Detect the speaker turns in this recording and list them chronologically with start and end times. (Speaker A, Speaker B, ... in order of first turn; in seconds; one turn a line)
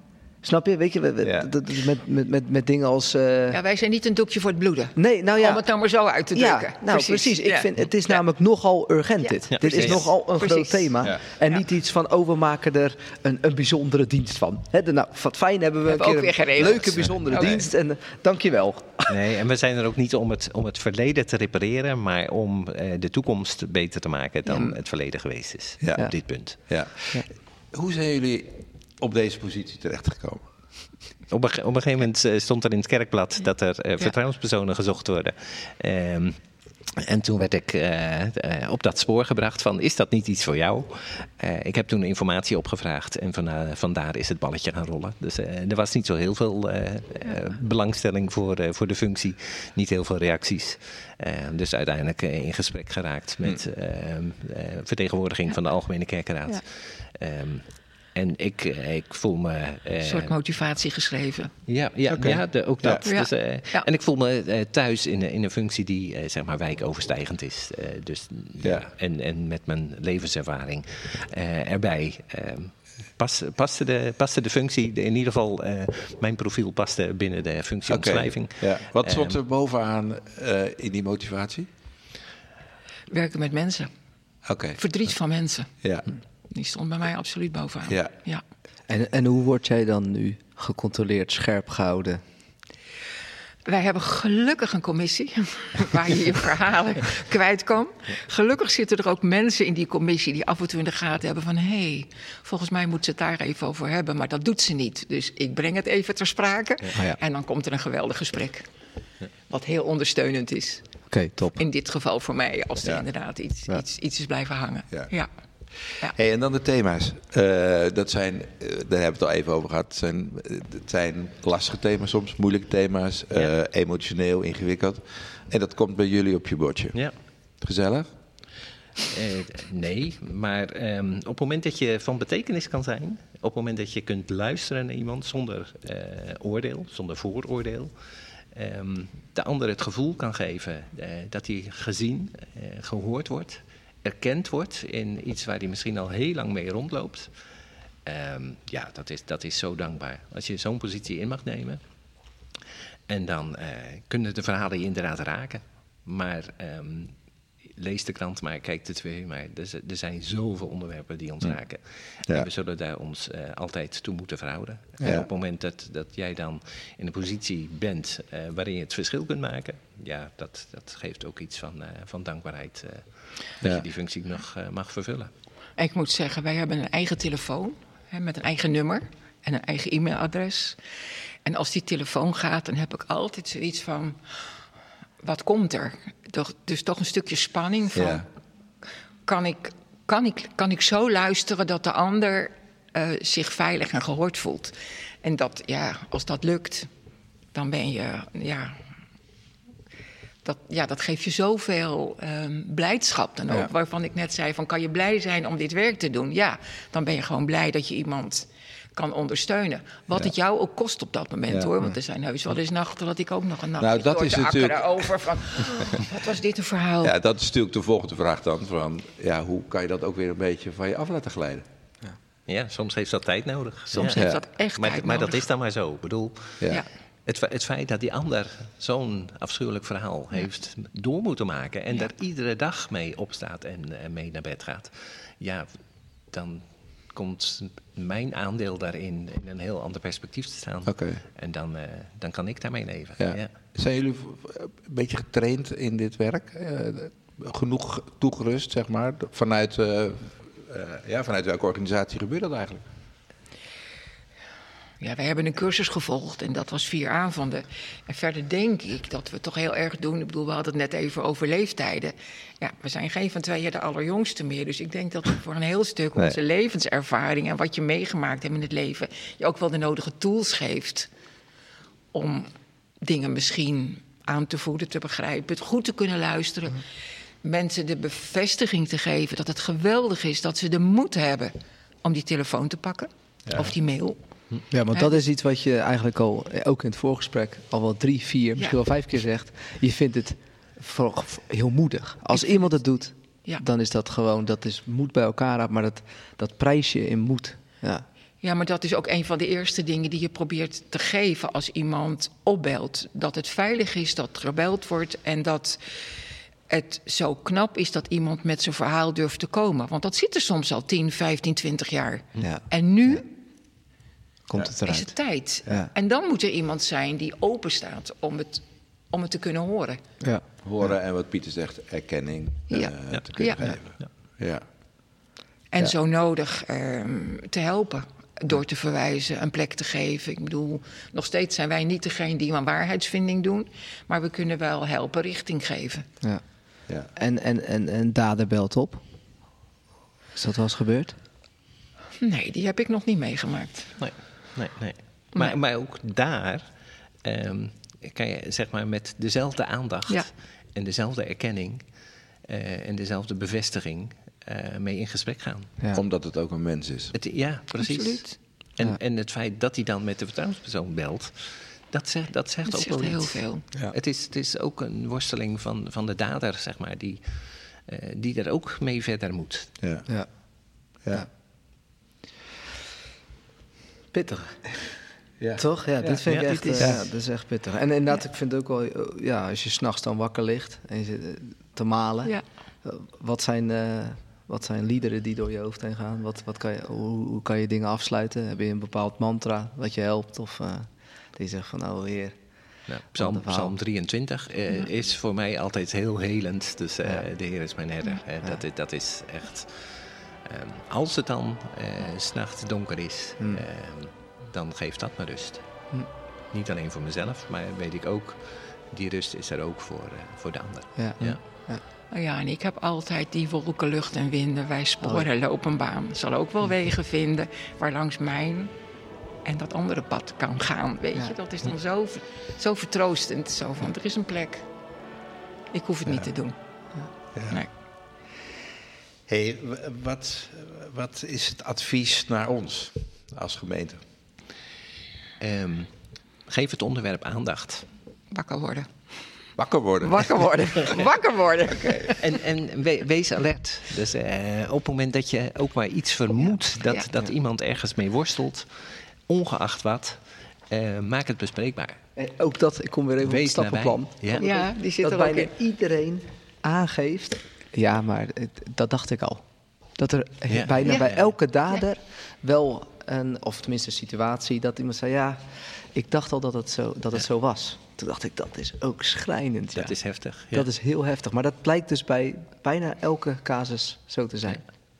Speaker A: 0.4-3.6
Speaker B: 1.2-1.5
Speaker C: 3.5-8.2
Speaker A: 5.0-5.6
Speaker A: 6.3-19.2
Speaker C: 9.2-11.6
Speaker D: 9.5-10.1
Speaker C: 15.9-17.6
Speaker B: 17.1-17.6
Speaker D: 19.1-26.6
Speaker B: 25.8-30.4
Speaker D: 31.3-36.4
Speaker D: 37.0-60.3
Speaker C: 60.0-61.5
Speaker D: 61.7-79.3
Speaker B: 62.2-63.1
Speaker C: 63.0-63.9
Speaker B: 68.6-68.8
Speaker B: 77.9-81.7
Speaker C: 83.1-83.9
Speaker B: 84.5-84.8
Speaker C: 84.8-85.8
Speaker B: 85.8-86.1
Speaker C: 86.5-88.4
Speaker B: 87.8-88.1
Speaker A: 88.9-92.2
Speaker C: 93.6-108.7
Speaker A: 106.9-107.2
Speaker C: 109.5-115.3
Speaker A: 111.1-111.6
Speaker B: 115.7-127.0
Speaker C: 115.9-116.2
Speaker B: 127.6-128.1
Speaker D: 129.1-137.9
Speaker D: 138.5-147.3
Speaker D: 148.1-151.8
Speaker D: 153.1-175.3
Speaker B: 165.0-165.3
Speaker C: 175.8-180.8
Speaker C: 181.4-184.5
Speaker C: 185.2-188.2
Speaker B: 187.9-188.2
Speaker C: 189.2-196.9
Speaker C: 197.5-198.8
Speaker C: 200.4-217.2
Speaker B: 213.8-216.0
Speaker B: 217.0-221.6
Speaker D: 222.5-226.7
Speaker C: 223.9-225.4
Speaker B: 224.1-224.4
Speaker D: 227.2-243.5
Speaker B: 240.8-241.2
Speaker B: 243.2-252.8
Speaker C: 255.0-271.1
Speaker C: 272.1-276.8
Speaker C: 277.4-284.2
Speaker B: 283.5-283.7
Speaker A: 284.7-298.1
Speaker C: 292.3-292.7
Speaker C: 298.4-313.3
Speaker A: 312.4-313.1
Speaker A: 314.5-315.1
Speaker C: 314.9-320.0
Speaker A: 315.6-315.9
Speaker B: 320.6-324.6
Speaker C: 322.7-323.6
Speaker D: 323.1-324.1
Speaker C: 325.7-336.1
Speaker A: 336.2-339.0
Speaker A: 340.4-341.1
Speaker C: 342.2-343.9
Speaker D: 344.0-346.7
Speaker D: 347.2-351.8
Speaker D: 352.5-355.7
Speaker B: 355.9-357.1
Speaker D: 357.1-367.2
Speaker C: 357.8-358.4
Speaker C: 362.6-363.6
Speaker D: 367.8-369.7
Speaker B: 369.8-370.1
Speaker A: 370.9-371.3
Speaker A: 374.1-374.9
Speaker A: 375.6-392.4
Speaker C: 376.0-376.9
Speaker D: 376.3-376.8
Speaker B: 376.8-377.0
Speaker D: 392.9-405.9
Speaker A: 393.1-393.7
Speaker D: 406.5-411.4
Speaker A: 410.9-411.8
Speaker C: 412.1-418.7
Speaker A: 415.0-415.3
Speaker C: 419.4-424.6
Speaker C: 425.7-426.6
Speaker B: 427.3-427.6
Speaker B: 429.3-434.0
Speaker D: 435.4-437.9
Speaker C: 438.3-438.9
Speaker B: 439.6-441.0
Speaker C: 440.0-442.2
Speaker B: 441.8-442.1
Speaker D: 442.2-452.0
Speaker A: 452.1-470.0
Speaker D: 453.2-454.4
Speaker C: 454.4-455.5
Speaker D: 460.5-461.3
Speaker C: 460.8-461.1
Speaker D: 469.7-470.7
Speaker A: 470.5-474.7